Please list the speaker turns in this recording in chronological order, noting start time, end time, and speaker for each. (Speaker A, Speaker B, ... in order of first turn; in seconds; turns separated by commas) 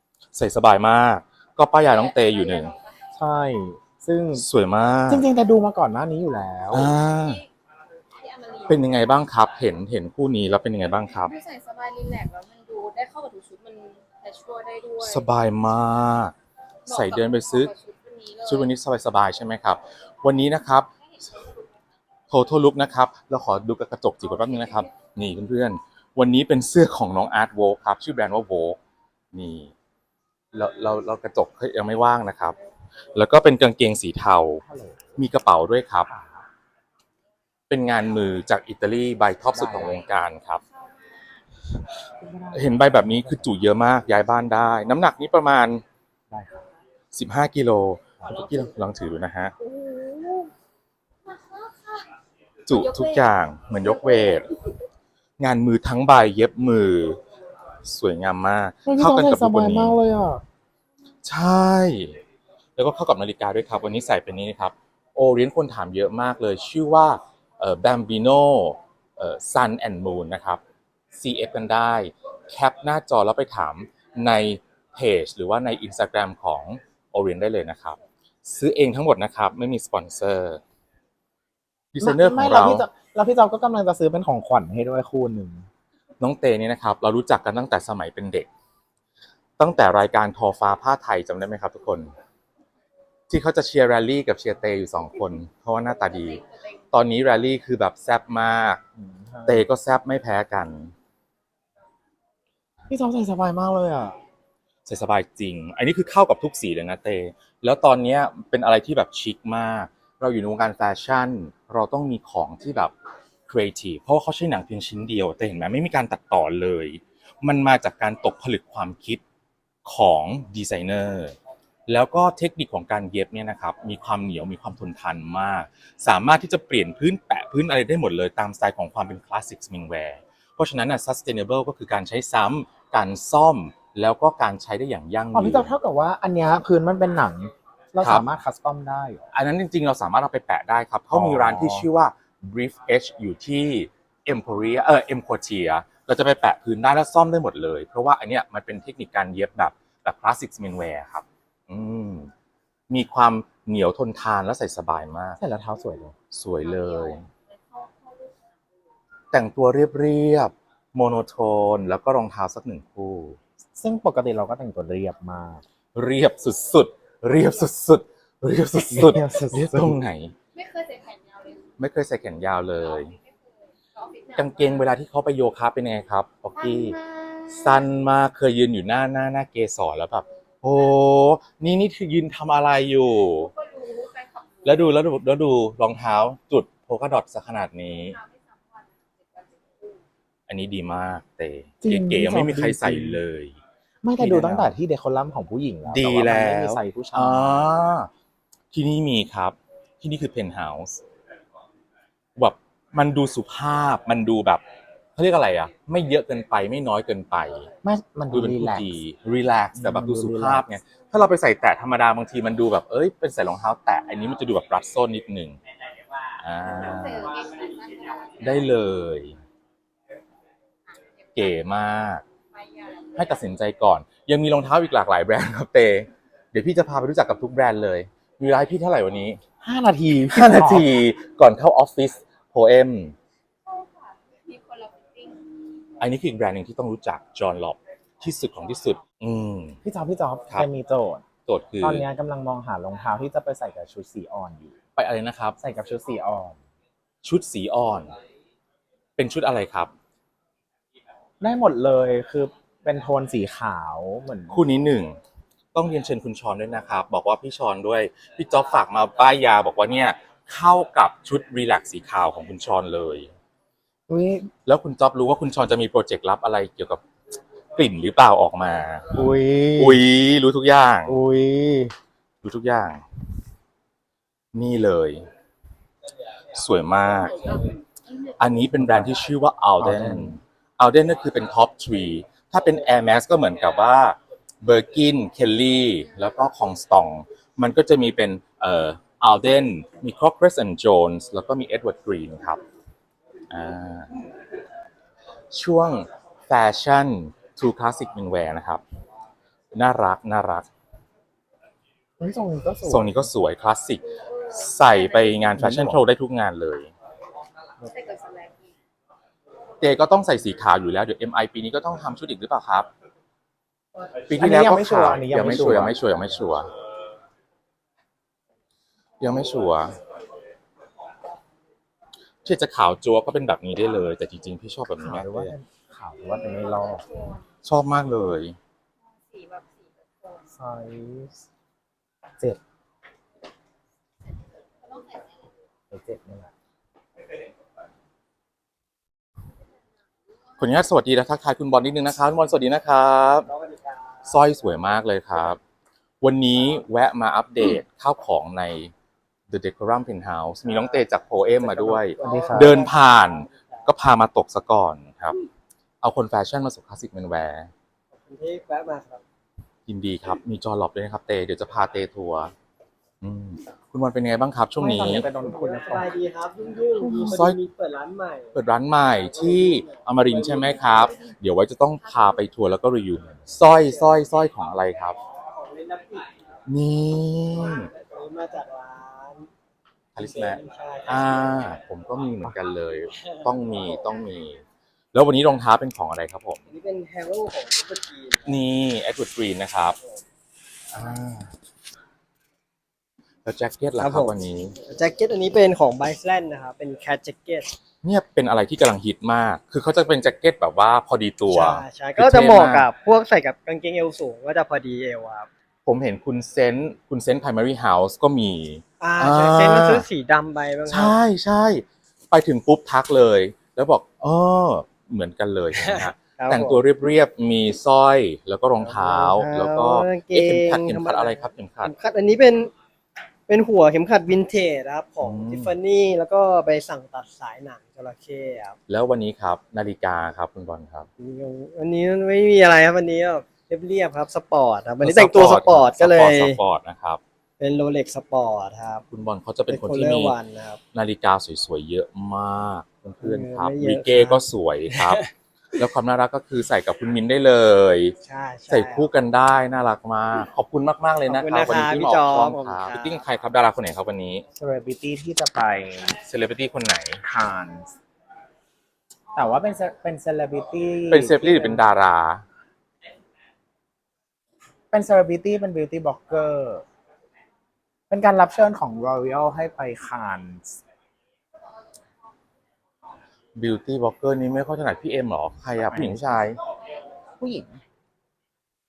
Speaker A: 0.3-2.7, Speaker B: 1.9-2.9, Speaker C: 3.1-4.5, Speaker A: 4.3-5.3, Speaker C: 5.1-6.9, Speaker A: 6.7-7.4, Speaker B: 7.2-7.5, Speaker B: 8.2-8.8, Speaker A: 8.7-11.3, Speaker B: 11.2-15.3, Speaker A: 15.0-16.3, Speaker A: 16.9-17.7, Speaker B: 16.9-18.7, Speaker A: 18.4-20.9, Speaker A: 22.3-28.8, Speaker A: 29.3-29.7, Speaker A: 30.5-32.6, Speaker A: 33.1-34.6, Speaker C: 34.6-35.2, Speaker A: 35.2-36.1, Speaker C: 36.0-36.5, Speaker A: 37.7-40.6, Speaker C: 39.5-40.0, Speaker C: 42.2-43.6, Speaker A: 42.5-45.8, Speaker C: 46.3-46.6, Speaker A: 47.1-49.5, Speaker B: 49.6-50.5, Speaker A: 52.7-54.5, Speaker B: 52.7-53.2, Speaker A: 55.4-57.2, Speaker A: 57.8-60.0, Speaker C: 58.9-60.4, Speaker A: 61.2-62.2, Speaker A: 62.8-70.6, Speaker A: 71.1-80.6, Speaker A: 81.9-82.9, Speaker C: 82.0-85.7, Speaker A: 86.2-88.5, Speaker A: 89.6-92.1, Speaker A: 93.3-98.8, Speaker C: 99.0-99.7, Speaker A: 99.5-100.9, Speaker C: 102.9-104.2, Speaker A: 104.9-112.9, Speaker A: 113.5-119.2, Speaker A: 119.8-121.4, Speaker A: 121.9-135.8, Speaker C: 135.3-139.3, Speaker A: 138.0-138.3, Speaker A: 139.3-152.3, Speaker C: 141.1-141.9, Speaker A: 152.9-155.4, Speaker C: 155.4-156.1, Speaker A: 156.3-157.3, Speaker B: 156.6-158.4, Speaker A: 159.3-163.4, Speaker C: 163.8-165.6, Speaker A: 165.9-170.3, Speaker C: 168.8-170.0, Speaker B: 170.5-171.7, Speaker A: 171.8-173.2, Speaker B: 172.9-174.9, Speaker A: 174.4-177.0, Speaker B: 176.6-177.9, Speaker A: 177.5-183.5, Speaker B: 183.5-184.8, Speaker A: 184.6-188.2, Speaker B: 188.1-190.0, Speaker A: 190.5-193.6, Speaker C: 191.8-193.2, Speaker C: 194.0-197.7, Speaker A: 194.2-194.7, Speaker A: 195.9-198.1, Speaker A: 198.7-201.0, Speaker A: 202.4-204.6, Speaker A: 205.2-207.7, Speaker C: 207.8-209.0, Speaker A: 208.3-215.6, Speaker C: 209.7-210.7, Speaker A: 216.4-217.3, Speaker B: 216.7-218.7, Speaker A: 218.4-219.4, Speaker A: 221.3-222.2, Speaker B: 222.6-223.2, Speaker A: 223.2-229.4, Speaker C: 229.6-230.9, Speaker A: 230.3-233.2, Speaker B: 233.7-235.4, Speaker A: 236.0-239.8, Speaker C: 239.8-241.2, Speaker A: 241.5-242.1, Speaker C: 241.8-244.8, Speaker A: 245.0-245.6, Speaker C: 245.6-246.6, Speaker A: 247.2-248.1, Speaker A: 249.2-249.9, Speaker C: 251.4-254.6, Speaker A: 254.5-255.2, Speaker A: 255.7-263.3, Speaker C: 264.1-264.5, Speaker A: 264.7-267.0, Speaker A: 267.8-271.2, Speaker C: 269.1-270.0, Speaker C: 271.1-271.9, Speaker A: 272.4-273.0, Speaker A: 274.5-275.3, Speaker A: 276.5-277.6, Speaker A: 278.4-292.6, Speaker C: 279.8-280.4, Speaker A: 293.5-294.1, Speaker A: 295.5-298.8, Speaker A: 299.7-300.7, Speaker C: 302.2-303.3, Speaker A: 302.8-306.9, Speaker B: 304.3-305.5, Speaker C: 305.6-306.0, Speaker B: 307.9-308.6, Speaker A: 309.8-312.9, Speaker A: 314.3-316.7, Speaker C: 314.4-316.5, Speaker A: 319.2-320.0, Speaker A: 322.4-325.5, Speaker C: 325.0-327.1, Speaker A: 327.6-328.6, Speaker B: 329.2-330.4, Speaker C: 330.5-331.4, Speaker C: 335.9-336.5, Speaker A: 340.6-343.5, Speaker D: 343.7-344.0, Speaker A: 344.2-345.6, Speaker A: 346.2-348.9, Speaker A: 349.5-355.4, Speaker D: 351.5-353.4, Speaker C: 352.2-352.9, Speaker A: 356.0-357.7, Speaker D: 358.1-359.2, Speaker A: 359.9-362.5, Speaker A: 363.2-365.3, Speaker C: 364.8-366.1, Speaker D: 365.3-368.6, Speaker C: 367.0-367.4, Speaker A: 367.2-367.6, Speaker A: 368.5-375.2, Speaker D: 369.1-371.1, Speaker D: 373.6-374.2, Speaker D: 375.5-376.3, Speaker A: 376.7-377.9, Speaker D: 377.6-379.5, Speaker A: 380.1-384.6, Speaker D: 380.2-381.8, Speaker D: 383.2-383.5, Speaker A: 385.1-386.6, Speaker D: 386.7-388.6, Speaker A: 388.5-390.0, Speaker A: 390.9-391.5, Speaker A: 393.4-394.8, Speaker D: 394.0-397.8, Speaker A: 398.0-402.9, Speaker D: 401.5-405.5, Speaker A: 405.9-410.1, Speaker D: 409.0-411.2, Speaker A: 410.9-421.9, Speaker D: 415.8-416.8, Speaker D: 418.8-422.7, Speaker D: 423.5-428.8, Speaker A: 425.2-425.8, Speaker A: 428.9-431.1, Speaker D: 431.2-436.6, Speaker A: 435.0-437.2, Speaker D: 437.6-439.0, Speaker A: 439.1-440.4, Speaker D: 439.7-440.8, Speaker A: 440.9-445.2, Speaker D: 443.2-445.2, Speaker A: 445.8-448.1, Speaker D: 448.2-449.1, Speaker A: 448.7-454.4, Speaker D: 451.3-453.1, Speaker C: 454.5-456.2, Speaker A: 456.2-457.2, Speaker C: 457.2-457.9, Speaker C: 459.3-461.8, Speaker A: 461.1-462.4, Speaker C: 464.9-466.8, Speaker C: 468.1-470.8, Speaker A: 473.6-476.6, Speaker C: 475.8-476.4, Speaker C: 477.4-477.8